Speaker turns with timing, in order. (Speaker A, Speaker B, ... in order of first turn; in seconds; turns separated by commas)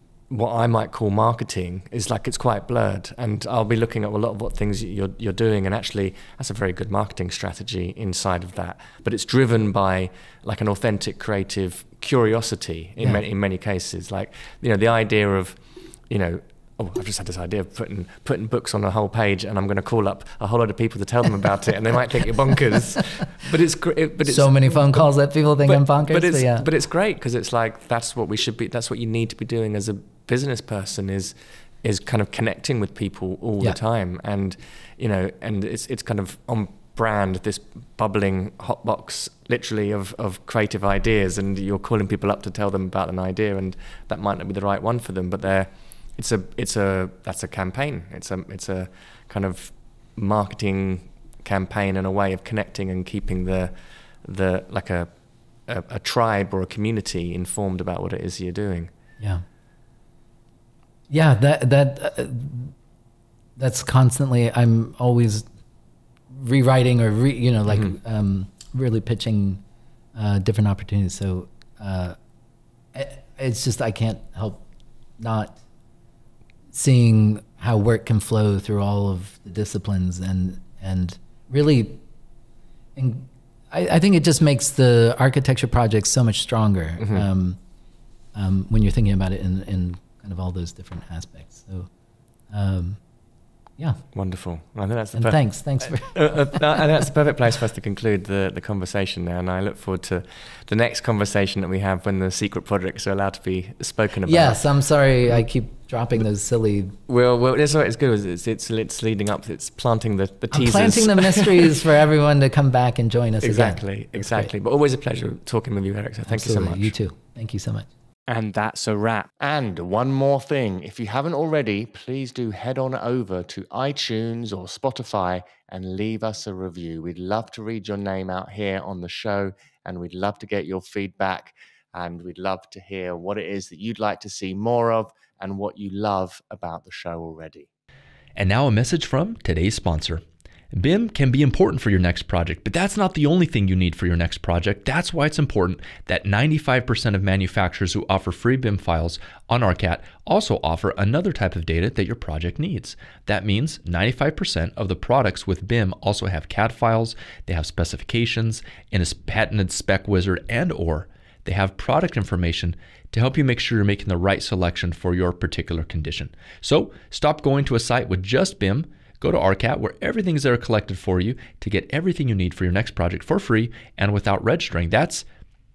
Speaker A: 0.3-25.1, Speaker B: 24.3-26.7, Speaker A: 25.6-55.1, Speaker A: 55.7-58.9, Speaker B: 61.1-62.7, Speaker B: 63.6-65.5, Speaker B: 66.3-69.6, Speaker B: 70.2-72.2, Speaker B: 72.9-74.7, Speaker B: 75.2-75.6, Speaker B: 76.7-82.0, Speaker B: 83.0-87.6, Speaker B: 88.3-91.9, Speaker B: 92.5-93.0, Speaker A: 94.1-104.6, Speaker B: 95.2-96.8, Speaker B: 104.3-107.0, Speaker A: 107.1-111.7, Speaker B: 110.5-114.5, Speaker A: 113.4-116.9, Speaker B: 116.2-117.9, Speaker A: 118.3-137.7, Speaker C: 138.3-140.2, Speaker C: 140.7-175.2